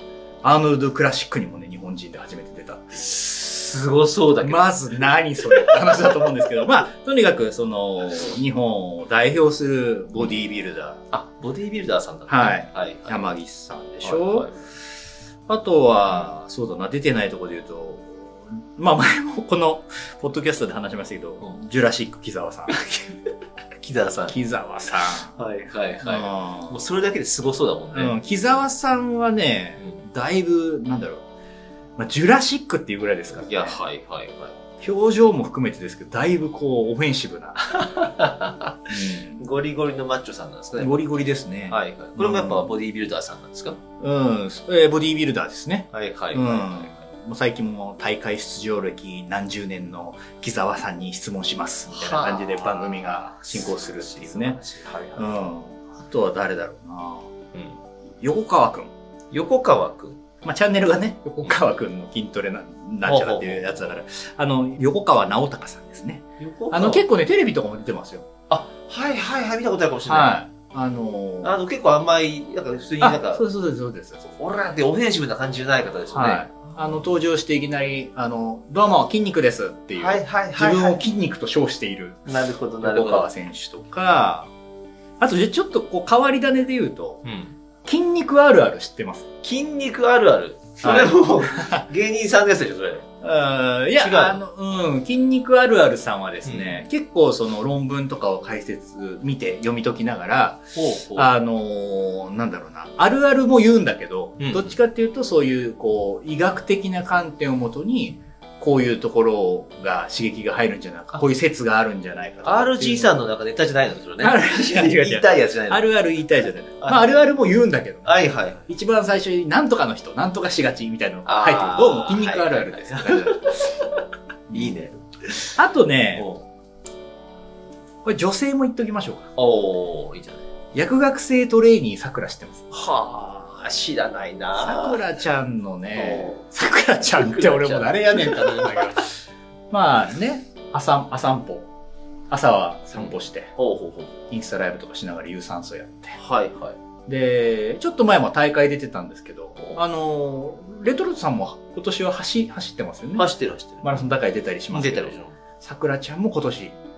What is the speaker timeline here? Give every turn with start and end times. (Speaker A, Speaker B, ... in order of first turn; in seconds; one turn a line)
Speaker A: 0.4-3.2
Speaker B: 3.0-4.7
Speaker A: 4.4-11.0
Speaker B: 5.7-6.0
Speaker B: 11.1-13.4
Speaker A: 12.3-14.5
Speaker B: 14.0-14.6
Speaker A: 15.5-22.8
Speaker B: 22.7-23.2
Speaker B: 23.8-24.4
Speaker A: 24.3-25.3
Speaker B: 25.3-28.2
Speaker A: 26.0-26.8
Speaker A: 27.9-31.2
Speaker A: 32.0-33.8
Speaker B: 33.4-34.5
Speaker A: 34.8-37.6
Speaker B: 37.6-41.0
Speaker A: 38.9-39.5
Speaker A: 40.8-42.7
Speaker B: 41.7-43.8
Speaker A: 44.0-54.6
Speaker B: 45.9-47.0
Speaker B: 51.9-55.3
Speaker A: 55.2-57.3
Speaker A: 58.2-58.9
Speaker B: 59.3-60.2
Speaker A: 60.4-68.3
Speaker B: 63.0-63.9
Speaker B: 66.4-67.0
Speaker B: 68.5-70.4
Speaker A: 70.1-71.6
Speaker B: 71.4-73.4
Speaker A: 73.0-74.2
Speaker B: 74.2-77.0
Speaker A: 76.1-82.3
Speaker B: 80.0-81.0
Speaker B: 82.3-83.3
Speaker A: 82.8-84.5
Speaker A: 85.2-87.2
Speaker B: 87.2-87.5
Speaker A: 87.8-89.3
Speaker B: 89.4-93.1
Speaker A: 90.8-91.8
Speaker A: 93.2-113.1
Speaker B: 94.0-94.4
Speaker B: 96.5-96.8
Speaker B: 100.7-101.3
Speaker B: 104.4-104.8
Speaker B: 112.4-115.9
Speaker A: 114.2-118.1
Speaker B: 116.8-117.2
Speaker B: 118.0-118.7
Speaker A: 118.7-123.5
Speaker B: 121.3-124.0
Speaker A: 124.5-124.8
Speaker B: 124.5-125.6
Speaker A: 125.6-126.3
Speaker B: 126.2-126.4
Speaker A: 128.0-129.3
Speaker B: 129.4-130.5
Speaker A: 130.7-132.7
Speaker B: 132.7-135.0
Speaker A: 134.6-139.2
Speaker B: 135.9-136.4
Speaker B: 137.1-139.1
Speaker A: 139.7-141.7
Speaker A: 142.3-143.5
Speaker B: 142.9-144.2
Speaker A: 144.3-146.2
Speaker B: 146.2-146.8
Speaker A: 147.1-153.3
Speaker B: 153.2-154.1
Speaker A: 153.8-156.7
Speaker B: 154.7-155.4